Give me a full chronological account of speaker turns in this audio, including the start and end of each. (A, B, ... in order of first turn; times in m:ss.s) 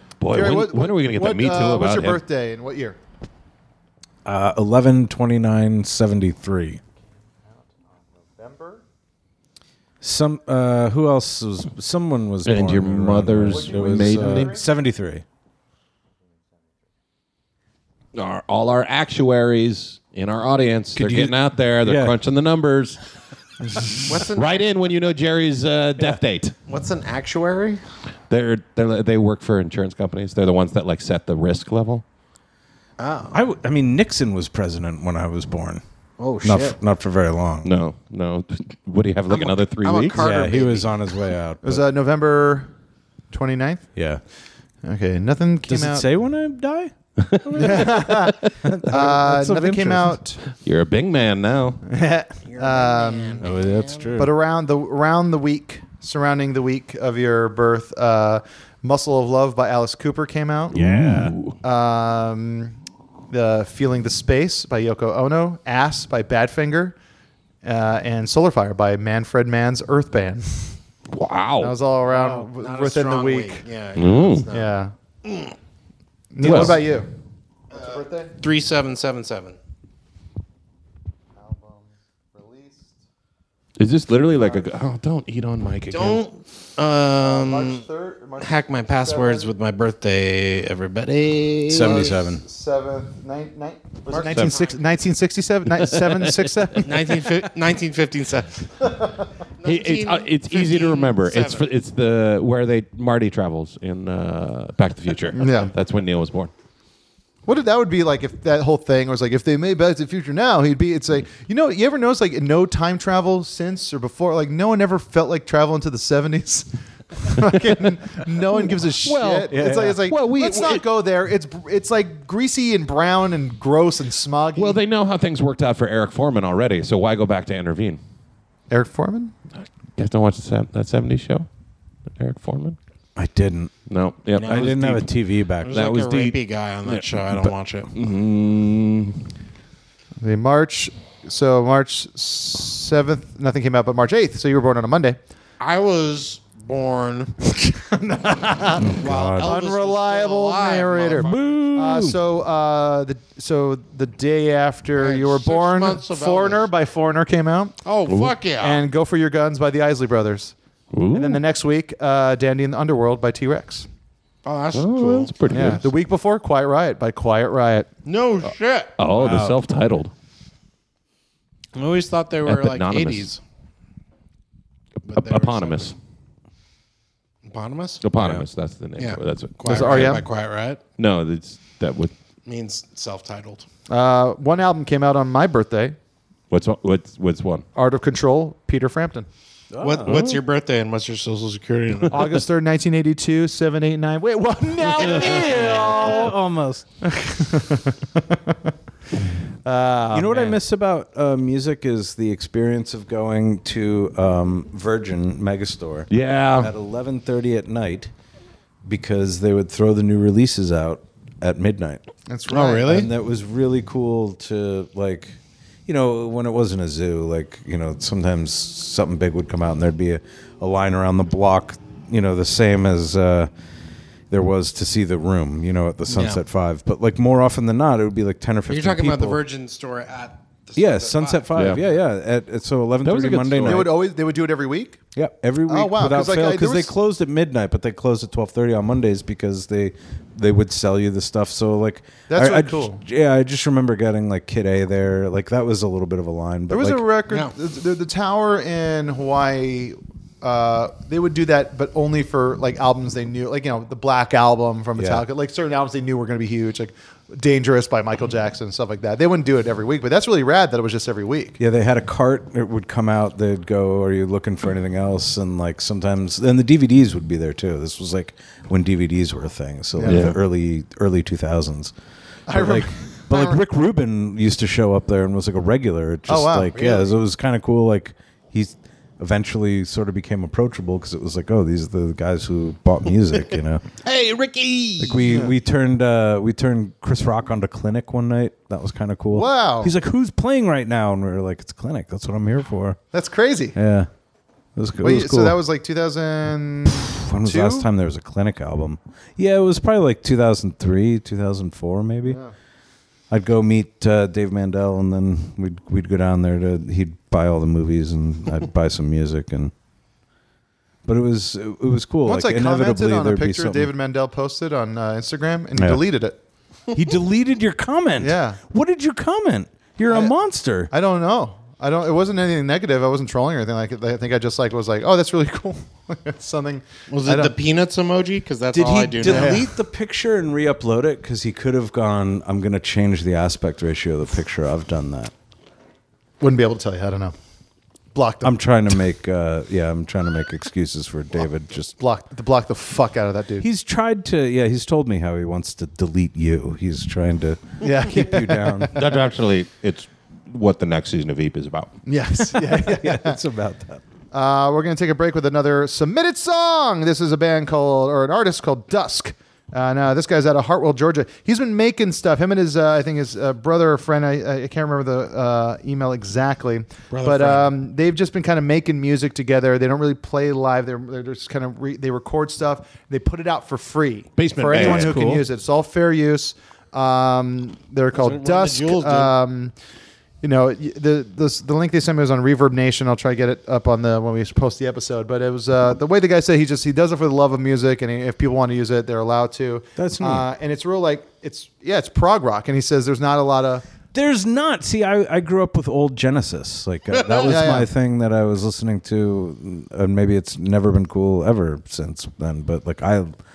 0:00.2-0:02.2 A
0:00.3-0:03.0 B
0:04.2-0:06.8 C
0:08.2-0:08.8 B
0:10.0-0:15.2 C
0:12.4-0:14.6 A
0:13.4-0:14.7 B
0:18.1-0:23.0 A
0:21.0-0:22.2 C
0:23.6-0:24.1 B
0:24.1-0:24.7 D
0:24.2-0:26.6 A
0:26.7-0:27.8 D
0:28.3-0:32.0 A
0:33.0-0:33.4 D
0:33.3-0:35.8 C
0:36.2-0:36.8 D
0:36.4-0:37.7 C
0:37.6-0:40.2 A
0:39.3-0:41.1 D
0:40.2-0:41.9 C
0:41.6-0:42.7 B
0:43.3-0:43.9 B
0:44.0-0:44.2 C
0:44.8-0:46.1 B
0:45.7-0:50.2 C
0:47.2-0:48.0 A
0:47.6-0:50.4 B
0:50.5-0:51.8 A
0:51.9-0:53.4 B
0:52.4-0:54.1 D
0:53.4-0:54.3 C
0:54.2-1:00.8 B
1:00.7-1:01.4 C
1:00.8-1:01.6 A
1:01.6-1:02.8 B
1:03.3-1:07.0 B
1:07.6-1:10.8 B
1:11.1-1:11.8 A
1:11.6-1:13.6 B
1:12.1-1:15.5 D
1:14.0-1:14.5 A
1:14.5-1:14.9 B
1:16.3-1:17.1 B
1:16.4-1:16.8 A
1:17.7-1:18.4 B
1:17.8-1:19.6 D
1:21.4-1:23.0 B
1:23.8-1:26.3 A
1:24.4-1:24.7 B
1:25.9-1:27.8 D
1:27.2-1:29.5 B
1:28.4-1:32.2 D
1:31.7-1:32.4 C
1:31.8-1:37.3 B
1:34.1-1:34.7 D
1:34.2-1:34.6 A
1:36.0-1:36.7 A
1:36.8-1:41.7 D
1:39.6-1:46.5 A
1:45.3-1:45.7 B
1:47.4-2:04.8 B
1:58.6-2:00.8 A
1:59.5-2:00.1 C
2:04.6-2:08.0 A
2:08.7-2:09.3 B
2:09.6-2:11.5 A
2:12.2-2:12.8 A
2:13.2-2:13.7 C
2:13.9-2:15.1 A
2:14.4-2:15.0 D
2:14.4-2:16.0 C
2:15.6-2:17.9 D
2:15.7-2:17.1 A
2:17.9-2:19.3 A
2:20.2-2:25.2 B
2:25.6-2:27.4 D
2:27.5-2:37.8 B
2:28.8-2:29.5 C
2:29.0-2:31.5 D
2:31.2-2:32.2 C
2:35.0-2:36.6 D
2:37.8-2:38.8 D
2:38.1-2:38.4 A
2:38.6-2:40.6 B
2:40.9-2:41.4 A
2:41.1-2:43.9 B
2:44.4-2:45.8 D
2:44.7-2:45.8 A
2:45.5-2:47.9 B
2:48.0-2:49.0 D
2:49.0-2:50.1 A
2:49.1-2:49.6 C
2:51.8-2:53.4 D
2:52.4-2:53.3 A
2:55.1-2:55.9 D
2:55.1-2:56.0 A
2:57.4-2:58.0 D
2:58.0-3:00.2 A
2:58.2-2:58.4 C
2:59.0-3:00.8 D
2:59.6-3:00.3 B
3:01.0-3:02.1 A
3:02.4-3:03.6 D
3:03.9-3:06.0 B
3:06.5-3:07.7 A
3:07.8-3:09.3 B
3:09.7-3:10.2 C
3:09.8-3:12.4 D
3:12.1-3:16.4 B
3:15.0-3:16.9 C
3:17.0-3:18.6 B
3:19.6-3:20.6 B
3:20.1-3:28.1 C
3:26.1-3:26.7 A
3:28.8-3:32.1 C
3:32.3-3:32.9 B
3:32.5-3:33.1 D
3:32.9-3:43.5 C
3:44.3-3:49.4 C
3:46.1-3:46.4 D
3:48.7-3:51.5 D
3:50.8-3:54.0 C
3:51.6-3:51.8 A
3:53.0-3:53.9 A
3:53.6-3:55.0 B
3:55.2-4:07.1 C
3:55.7-3:57.0 B
4:02.3-4:03.0 B
4:06.7-4:21.6 B
4:15.0-4:15.2 C
4:21.6-4:31.9 C
4:30.0-4:30.4 B
4:30.1-4:30.4 A
4:32.5-4:33.6 B
4:32.5-4:43.8 C
4:36.3-4:36.8 B
4:36.8-4:37.1 D
4:44.0-4:45.1 A
4:45.0-4:53.0 C
4:45.1-4:45.5 B
4:49.3-4:49.9 B
4:53.1-4:53.8 B
4:53.8-4:54.1 C
4:54.8-4:55.6 C
4:55.0-4:57.9 B
4:57.3-5:02.4 C
5:02.3-5:02.5 B
5:03.3-5:09.7 C
5:11.0-5:13.9 C
5:12.2-5:16.4 B
5:15.8-5:16.0 C
5:16.9-5:20.9 C
5:18.2-5:18.6 B
5:20.1-5:20.4 B
5:20.9-5:27.6 B
5:27.1-5:29.7 D
5:28.7-5:35.3 C
5:29.2-5:29.7 B
5:36.4-5:37.4 B
5:38.1-5:38.6 B
5:38.4-5:42.0 C
5:42.0-5:43.7 B
5:43.6-5:48.9 C
5:47.8-5:49.1 B
5:48.9-5:52.0 A
5:52.1-5:53.4 B
5:52.4-5:54.0 C
5:54.3-6:19.7 B
6:07.1-6:07.8 D
6:14.4-6:15.2 A
6:14.7-6:15.4 C
6:18.2-6:19.3 D
6:20.4-6:33.9 B
6:30.0-6:30.5 C
6:34.1-6:43.4 C
6:37.4-6:37.9 B